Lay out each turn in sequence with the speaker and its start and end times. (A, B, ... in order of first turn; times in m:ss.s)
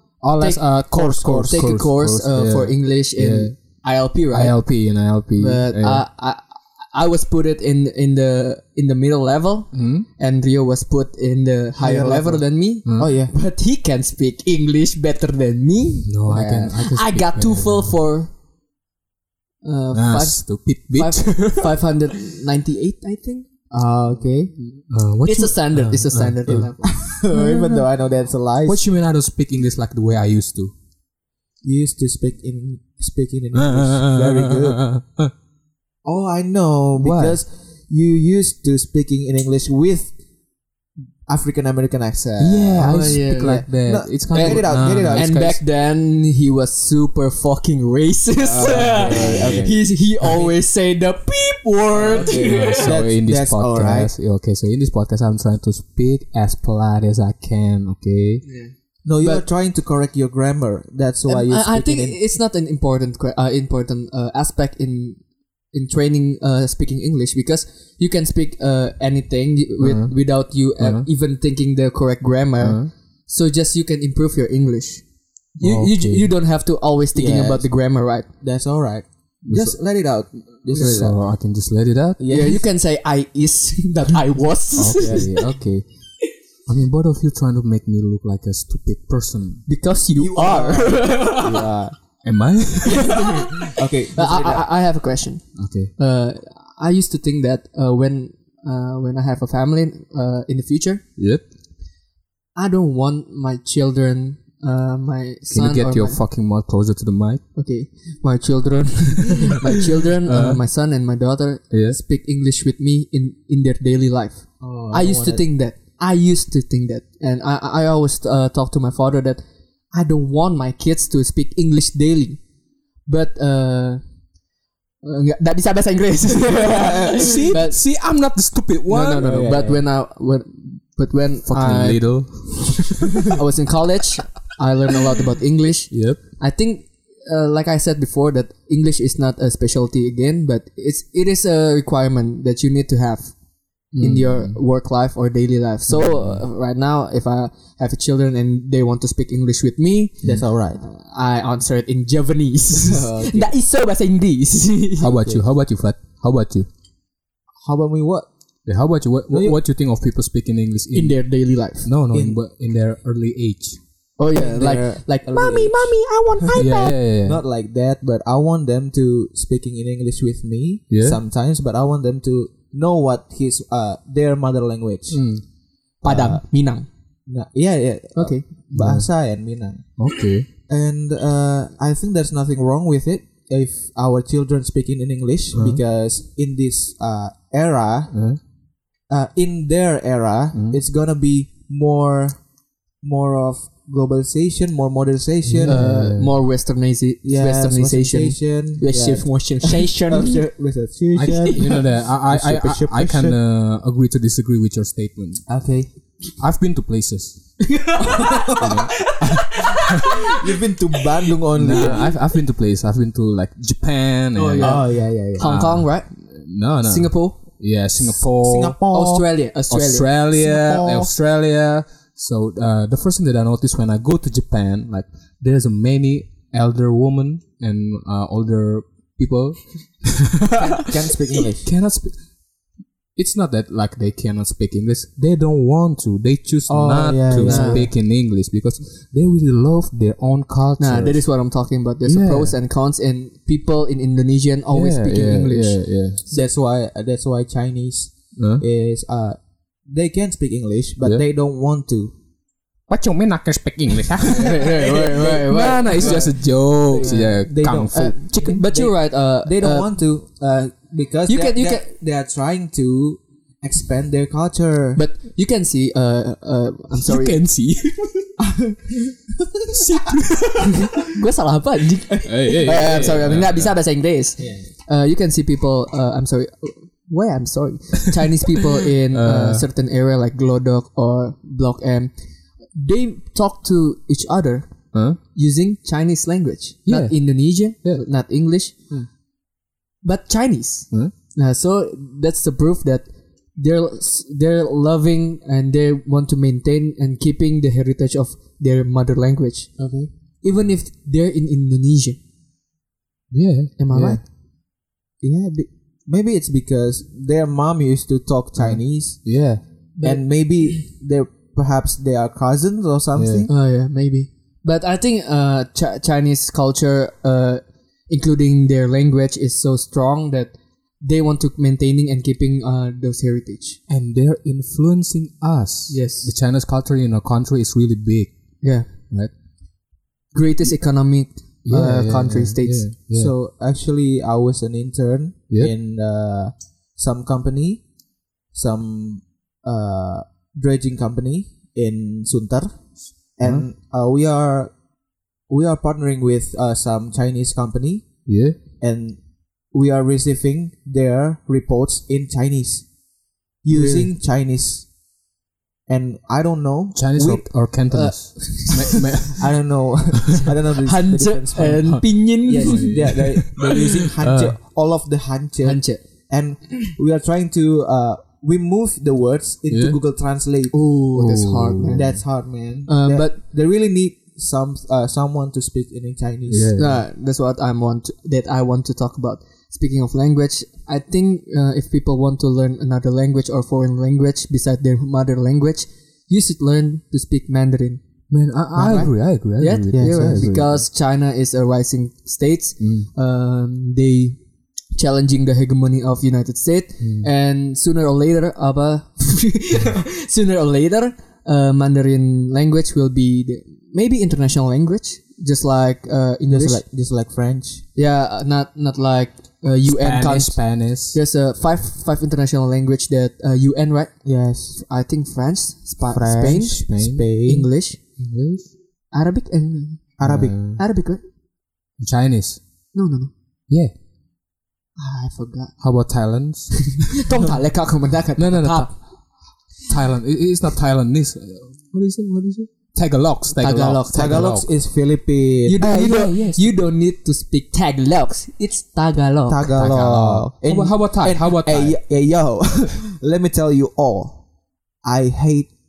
0:00.2-0:06.0 A
0:00.3-0:04.6 B
0:00.9-0:01.8 C
0:05.4-0:18.3 B
0:09.7-0:10.1 A
0:11.8-0:13.3 C
0:12.8-0:13.1 A
0:16.0-0:17.9 A
0:19.6-0:24.5 B
0:19.9-0:21.8 A
0:23.7-0:24.5 C
0:24.7-0:27.8 A
0:25.2-0:26.9 B
0:26.5-0:28.8 C
0:28.6-0:30.7 A
0:31.6-0:34.8 C
0:33.5-0:35.3 A
0:36.0-0:40.1 C
0:37.0-0:37.4 A
0:41.3-0:45.3 C
0:42.4-0:45.6 A
0:42.8-0:43.6 B
0:44.3-0:53.0 B
0:48.4-0:50.2 C
0:48.5-0:49.8 A
0:51.9-0:54.1 C
0:52.2-0:58.4 A
0:58.4-0:59.4 B
0:59.0-1:02.2 C
1:01.3-1:05.2 B
1:05.7-1:15.0 B
1:09.8-1:11.1 A
1:12.6-1:12.9 A
1:15.5-1:18.3 B
1:15.6-1:16.3 A
1:17.1-1:17.7 C
1:18.4-1:21.2 C
1:19.4-1:22.2 A
1:20.7-1:21.0 B
1:22.2-1:22.6 C
1:22.3-1:25.4 B
1:24.8-1:25.8 A
1:26.6-1:29.6 A
1:29.6-1:31.7 B
1:30.2-1:31.9 C
1:32.2-1:33.7 A
1:32.9-1:41.0 B
1:33.7-1:34.6 C
1:35.5-1:35.9 A
1:41.2-1:41.4 A
1:42.6-1:46.2 B
1:45.5-1:47.4 A
1:47.5-1:59.4 B
1:50.2-1:50.6 A
1:51.7-1:52.0 A
1:54.6-1:55.4 C
1:59.9-2:02.4 B
2:03.0-2:04.0 B
2:05.0-2:07.8 B
2:07.0-2:09.5 A
2:08.9-2:12.1 B
2:09.2-2:09.8 C
2:11.5-2:13.3 A
2:13.2-2:23.3 B
2:15.9-2:16.2 A
2:23.9-2:24.6 A
2:24.0-2:35.1 B
2:25.9-2:26.4 A
2:30.2-2:30.8 C
2:32.8-2:33.5 C
2:35.0-2:36.7 A
2:37.6-2:38.3 C
2:38.7-2:43.8 A
2:39.3-2:39.6 C
2:40.9-2:41.9 B
2:42.1-2:42.4 C
2:44.2-2:46.9 B
2:44.3-2:46.6 C
2:46.6-2:47.4 A
2:47.2-2:55.2 C
2:50.9-2:51.2 A
2:55.1-2:55.4 A
2:56.0-2:56.9 B
2:56.0-2:56.4 C
2:57.3-2:59.8 C
2:58.2-2:58.4 B
2:58.7-2:59.1 A
3:00.0-3:00.5 A
3:00.7-3:08.2 C
3:05.5-3:05.8 A
3:08.1-3:08.4 A
3:09.1-3:12.4 C
3:10.5-3:10.8 A
3:13.0-3:15.8 C
3:15.4-3:16.4 A
3:15.6-3:20.4 B
3:17.2-3:23.4 C
3:21.1-3:25.4 A
3:25.5-3:25.9 C
3:26.4-3:27.6 A
3:27.9-3:32.1 C
3:27.9-3:28.6 B
3:28.6-3:29.2 A
3:31.6-3:38.8 A
3:31.7-3:32.0 B
3:34.3-3:36.1 B
3:34.6-3:35.5 C
3:36.8-3:37.4 B
3:38.0-3:39.2 C
3:38.9-3:40.1 B
3:39.7-3:50.9 A
3:40.3-3:41.1 C
3:50.6-3:51.7 C
3:51.6-3:52.2 A
3:53.2-4:01.2 A
3:56.7-3:57.9 C
3:57.4-3:57.8 B
4:00.8-4:06.5 B
4:02.0-4:02.5 A
4:04.7-4:06.2 A
4:06.3-4:12.1 C
4:08.4-4:08.6 A
4:12.9-4:18.2 A
4:14.2-4:19.9 B
4:14.8-4:25.0 C
4:21.3-4:21.9 B
4:25.0-4:27.4 B
4:27.0-4:28.3 A
4:28.4-4:29.8 C
4:29.7-4:31.0 A
4:31.1-4:42.1 B
4:32.2-4:33.8 A
4:34.4-4:34.7 C
4:39.1-4:39.6 A
4:42.7-4:44.8 B
4:44.9-4:45.2 A
4:45.3-4:48.8 B
4:46.9-4:48.0 A
4:50.0-4:59.8 B
4:59.8-5:00.1 C
5:00.4-5:02.2 B
5:03.3-5:04.2 A
5:03.8-5:04.2 B
5:05.2-5:09.3 C
5:08.6-5:09.6 A
5:10.0-5:10.2 B
5:10.0-5:13.5 C
5:13.2-5:13.5 A
5:13.5-5:23.8 B
5:23.9-5:29.3 A
5:25.9-5:26.3 B
5:28.6-5:28.9 B
5:30.3-5:32.8 B
5:31.6-5:33.3 A
5:33.1-5:37.8 C
5:38.5-5:44.7 C
5:43.4-5:43.6 A
5:45.5-5:48.2 C
5:48.2-5:48.6 A
5:48.8-5:52.9 C
5:53.6-5:54.9 C
5:53.7-5:54.1 B
5:55.9-5:57.5 C
5:56.9-5:59.6 A
5:57.9-5:59.0 B
5:59.4-6:10.7 C
6:00.8-6:03.1 B
6:01.8-6:04.6 A
6:05.6-6:06.0 B
6:09.7-6:10.0 A
6:10.7-6:12.3 B
6:11.1-6:12.1 A
6:11.9-6:16.8 C
6:12.8-6:13.4 B
6:16.5-6:17.0 A
6:16.8-6:28.0 B
6:28.3-6:30.8 A
6:28.7-6:29.2 C
6:29.6-6:34.4 B
6:29.9-6:30.4 C
6:32.8-6:33.1 A
6:35.0-6:46.8 B
6:37.0-6:37.3 A
6:46.5-6:47.8 C
6:47.9-6:54.2 B
6:49.8-6:51.2 A
6:54.2-6:54.8 C
6:54.7-6:56.8 B
6:56.1-6:57.7 C
6:56.9-6:57.2 A
6:57.4-6:58.0 B
6:58.2-6:58.6 A
6:59.1-7:00.2 B
7:00.2-7:00.6 C
7:00.2-7:00.8 A
7:00.8-7:01.2 B
7:02.0-7:02.6 A
7:02.9-7:03.3 B
7:05.0-7:05.7 B
7:05.8-7:07.2 A
7:07.1-7:09.0 B
7:08.4-7:09.0 A
7:09.8-7:14.7 A
7:13.6-7:14.6 B
7:14.1-7:15.8 C
7:15.6-7:19.7 B
7:15.8-7:16.7 A
7:19.5-7:24.4 C
7:19.7-7:22.0 A
7:25.0-7:25.7 C